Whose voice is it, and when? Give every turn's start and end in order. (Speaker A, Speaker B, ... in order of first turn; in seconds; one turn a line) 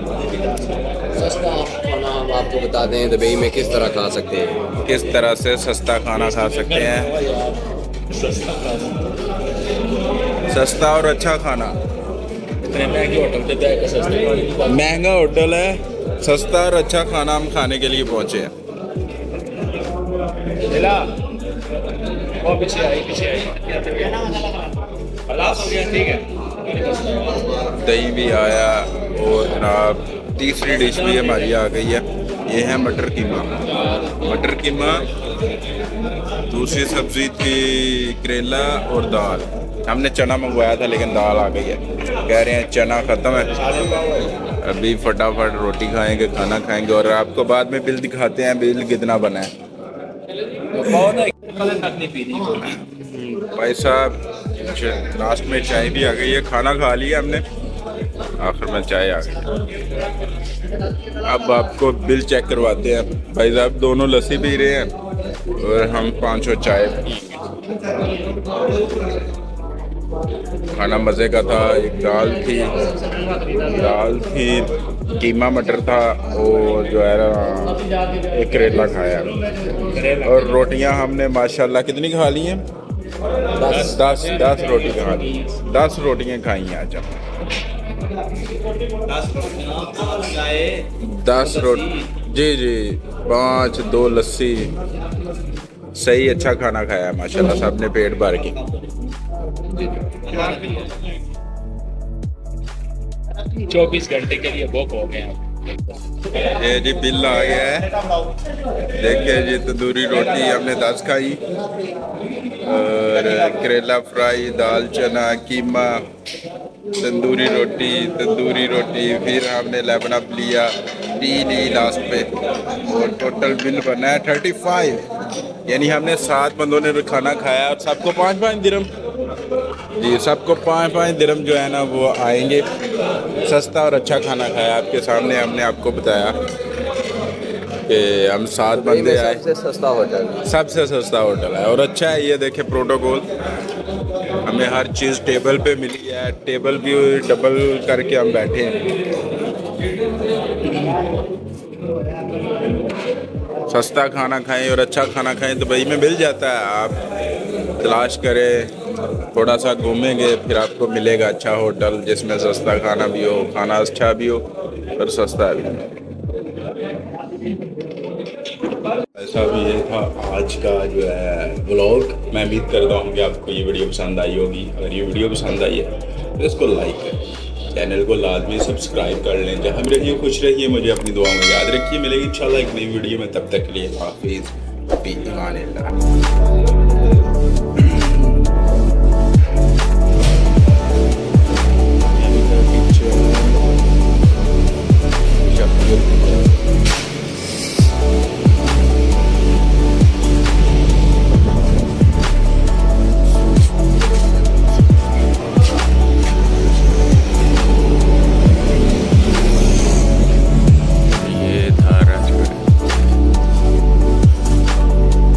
Speaker A: 1.1-4.6
Speaker B: 4.8-7.1
Speaker C: 6.4-9.1
Speaker B: 10.5-11.8
Speaker C: 12.6-14.7
Speaker B: 14.6-18.5
Speaker C: 20.6-21.1
Speaker C: 22.4-24.6
Speaker C: 25.3-27.4
Speaker B: 27.7-33.6
Speaker B: 34.2-35.1
Speaker B: 36.5-49.5
Speaker C: 50.8-52.7
Speaker B: 52.5-57.4
Speaker B: 58.4-59.5
Speaker B: 61.2-64.9
Speaker B: 65.6-67.5
Speaker B: 70.7-72.8
Speaker B: 73.5-79.4
Speaker C: 79.9-80.5
Speaker B: 80.1-82.6
Speaker A: 83.6-83.9
Speaker C: 83.7-85.5
Speaker B: 83.8-87.2
Speaker B: 90.8-94.7
Speaker B: 96.0-98.6
Speaker C: 103.6-105.4
Speaker B: 106.3-107.9
Speaker B: 108.9-111.4
Speaker B: 112.6-116.0
Speaker B: 117.0-122.3
Speaker B: 122.8-125.1
Speaker B: 125.7-128.9
Speaker B: 130.0-132.7
Speaker B: 133.4-136.4
Speaker B: 137.9-139.4
Speaker A: 138.7-140.4
Speaker B: 140.4-143.3
Speaker B: 144.4-148.8
Speaker B: 153.7-157.0
Speaker B: 157.8-158.7
Speaker B: 159.3-166.0
Speaker B: 169.1-186.0
Speaker B: 187.8-188.5
Speaker B: 192.1-193.7
Speaker B: 195.5-196.6
Speaker B: 211.1-212.7